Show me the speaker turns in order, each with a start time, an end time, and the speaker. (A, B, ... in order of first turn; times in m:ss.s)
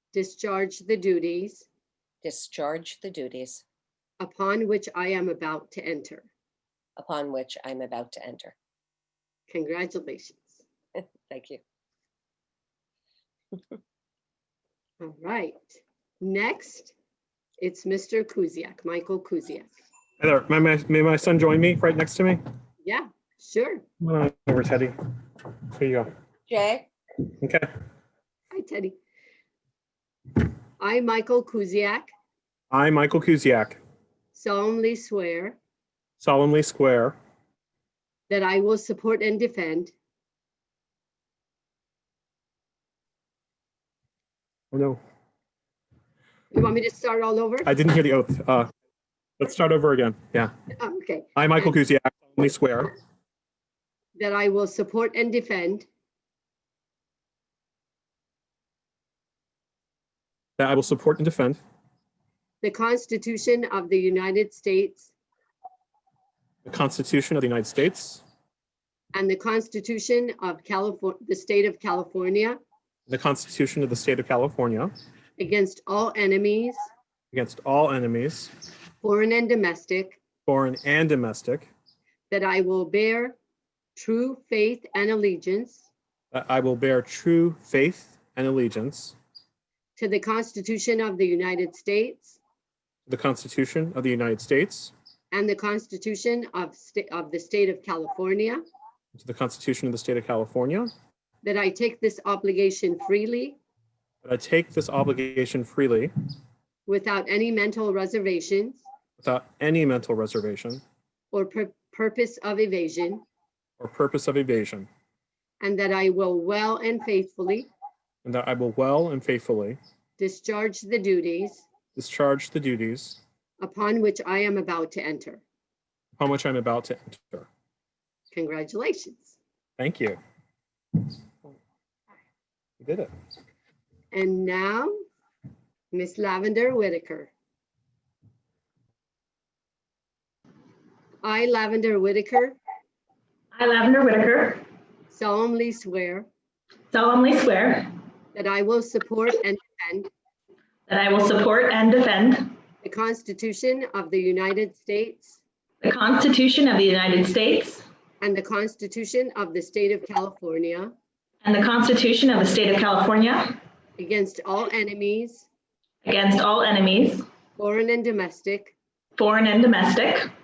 0:00.1-0:01.7 A
0:02.2-0:03.6 B
0:04.2-0:06.3 A
0:07.0-0:08.5 B
0:09.5-0:10.6 A
0:11.0-0:11.6 B
0:15.0-0:16.9 A
0:17.6-0:19.7 A
0:20.2-0:22.4 C
0:22.8-0:23.8 A
0:24.0-0:24.9 C
0:25.7-0:26.1 C
0:26.5-0:26.9 B
0:27.4-0:27.7 C
0:28.5-0:28.9 A
0:30.8-0:32.1 A
0:32.7-0:33.8 C
0:34.3-0:35.6 A
0:36.2-0:37.2 C
0:38.3-0:39.9 A
0:44.7-0:45.0 C
0:46.5-0:47.7 A
0:47.6-0:48.7 C
0:49.4-0:50.5 C
0:50.8-0:51.7 A
0:51.4-0:52.9 C
0:54.2-0:55.9 A
1:00.6-1:01.6 C
1:02.6-1:05.1 A
1:06.6-1:08.2 C
1:09.1-1:12.6 A
1:13.1-1:14.9 C
1:15.4-1:16.8 A
1:17.3-1:18.5 C
1:19.0-1:20.2 A
1:20.4-1:21.7 C
1:22.3-1:23.4 A
1:24.0-1:25.9 A
1:26.3-1:29.2 C
1:30.0-1:32.4 A
1:33.1-1:34.9 C
1:35.3-1:38.6 A
1:39.1-1:40.9 C
1:41.4-1:43.6 A
1:44.2-1:46.1 C
1:46.9-1:48.8 A
1:49.2-1:50.8 C
1:51.3-1:53.2 A
1:53.8-1:54.9 C
1:55.6-1:57.7 A
1:58.2-1:59.8 C
2:00.2-2:01.7 A
2:02.0-2:03.2 C
2:03.6-2:05.4 A
2:06.2-2:07.5 C
2:08.3-2:09.4 A
2:09.8-2:10.2 C
2:12.8-2:13.1 C
2:14.1-2:14.9 A
2:15.9-2:17.3 A
2:21.2-2:22.6 A
2:23.5-2:24.6 D
2:25.1-2:26.2 A
2:26.9-2:27.9 D
2:28.3-2:30.1 A
2:30.9-2:32.6 D
2:32.8-2:35.4 A
2:35.8-2:37.8 D
2:38.2-2:40.9 A
2:41.4-2:43.6 D
2:44.0-2:45.5 A
2:46.0-2:47.3 D
2:47.6-2:48.8 A
2:49.2-2:50.3 D